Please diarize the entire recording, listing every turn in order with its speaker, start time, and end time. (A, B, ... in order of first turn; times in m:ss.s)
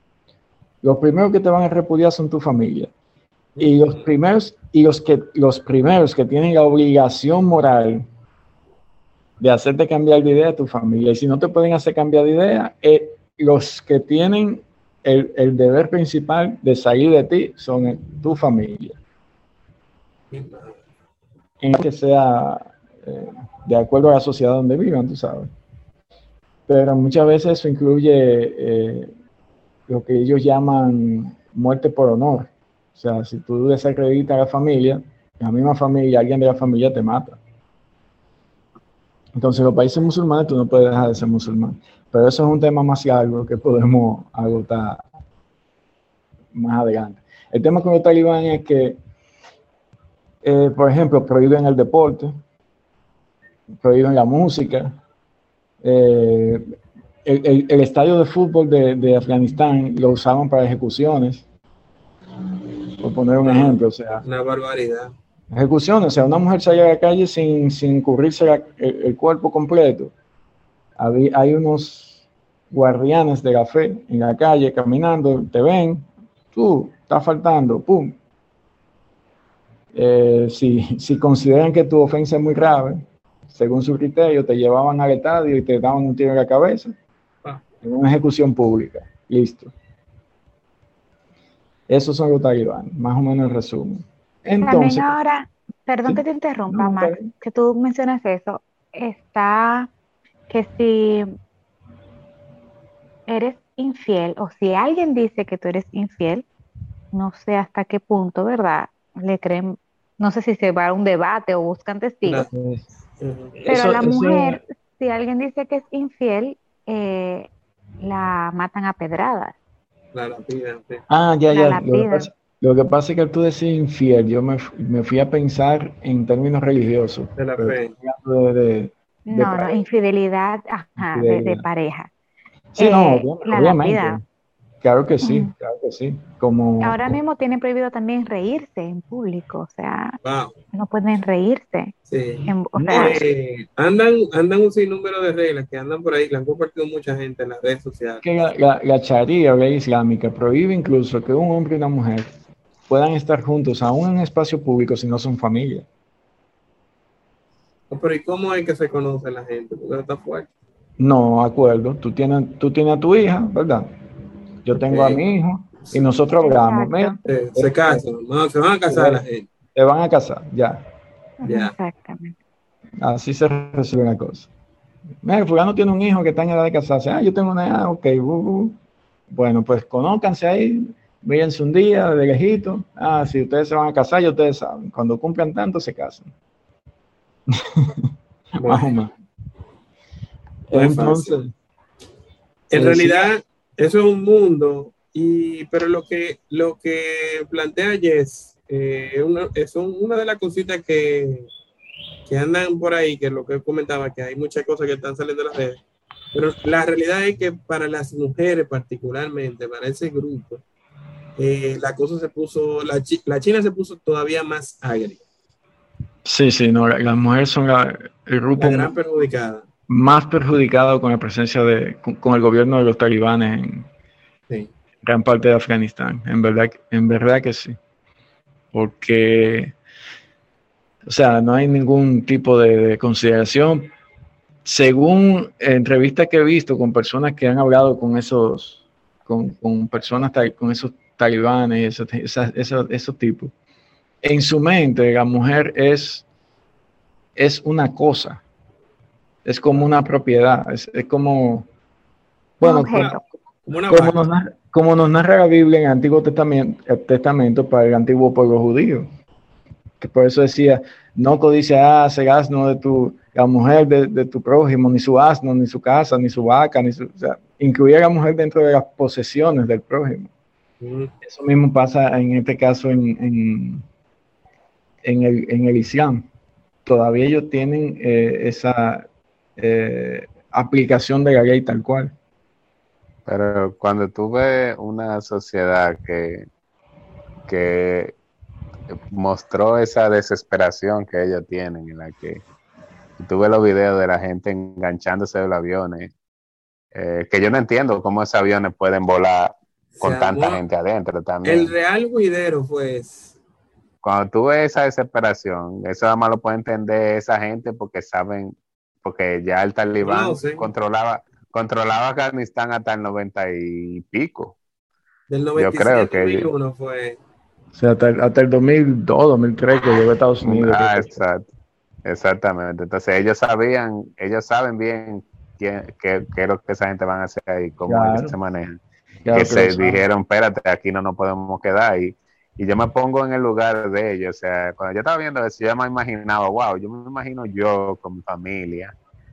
0:00.8-0:02.9 A
0:03.6-0:04.0 B
0:03.6-0:08.0 A
0:09.4-0:19.0 A
0:20.3-0:20.8 B
0:21.6-0:25.5 A
0:26.7-0:29.1 A
0:29.9-0:37.4 A
0:39.4-0:45.1 A
0:46.5-0:49.0 A
0:50.4-0:52.4 A
0:53.8-0:55.0 A
0:55.8-0:56.6 A
0:57.2-1:01.4 A
1:03.0-1:04.2 A
1:03.4-1:05.1 B
1:05.5-1:10.1 A
1:11.0-1:18.2 A
1:19.9-1:26.9 A
1:27.8-1:29.7 A
1:31.9-1:35.1 A
1:34.6-1:39.9 C
1:36.0-1:37.3 A
1:40.5-1:41.3 C
1:43.3-1:46.4 C
1:47.1-1:52.5 C
1:52.2-1:52.5 B
1:52.5-1:52.8 A
1:53.2-1:53.6 B
1:53.6-1:54.6 A
1:53.7-1:57.5 C
1:58.0-1:59.5 C
2:00.1-2:01.0 B
2:01.1-2:09.8 A
2:01.5-2:02.3 C
2:07.4-2:07.9 B
2:09.3-2:12.1 C
2:11.0-2:11.6 A
2:12.7-2:14.2 A
2:12.8-2:14.2 C
2:14.8-2:17.2 A
2:15.2-2:15.5 C
2:16.8-2:20.2 C
2:20.2-2:20.6 B
2:20.7-2:21.9 C
2:22.1-2:28.2 B
2:22.5-2:23.2 C
2:22.8-2:23.1 A
2:28.2-2:32.3 A
2:32.9-2:35.8 A
2:37.9-2:40.5 B
2:41.0-2:43.9 A
2:44.6-2:48.0 A
2:44.7-2:45.2 B
2:46.4-2:47.2 C
2:47.2-2:49.5 B
2:48.9-2:49.2 A
2:49.7-2:50.8 A
2:51.4-2:52.3 C
2:51.4-2:51.7 B
2:53.0-2:54.5 A
2:55.2-2:58.8 A
2:59.3-3:06.3 A
3:07.5-3:09.1 A
3:08.6-3:08.9 B
3:10.7-3:11.5 A
3:10.7-3:11.4 B
3:12.7-3:21.5 B
3:12.7-3:13.3 A
3:22.2-3:25.8 B
3:26.3-3:30.6 B
3:31.4-3:35.2 B
3:36.2-3:38.9 A
3:38.6-3:39.6 B
3:39.9-3:43.9 A
3:45.0-3:47.8 A
3:48.7-3:49.8 A
3:51.0-3:53.9 A
3:54.6-4:03.5 A
4:04.2-4:06.2 A
4:07.4-4:08.4 A
4:09.4-4:11.7 A
4:12.6-4:13.2 A
4:12.6-4:13.2 C
4:12.9-4:14.2 B
4:13.9-4:19.1 A
4:20.0-4:30.3 A
4:30.8-4:31.1 B
4:31.2-4:33.8 A
4:35.0-4:36.3 A
4:36.8-4:42.1 A
4:43.2-4:46.4 D
4:47.5-4:48.2 D
4:49.1-4:52.4 D
4:53.2-4:56.1 D
4:56.9-5:01.7 D
5:00.0-5:00.6 B
5:01.4-5:03.4 B
5:04.0-5:14.6 D
5:10.0-5:10.7 B
5:15.3-5:17.2 B
5:15.6-5:16.5 D
5:17.7-5:21.1 A
5:20.4-5:21.5 D
5:22.0-5:28.8 D
5:27.8-5:28.3 A
5:29.2-5:30.0 A
5:29.3-5:38.9 D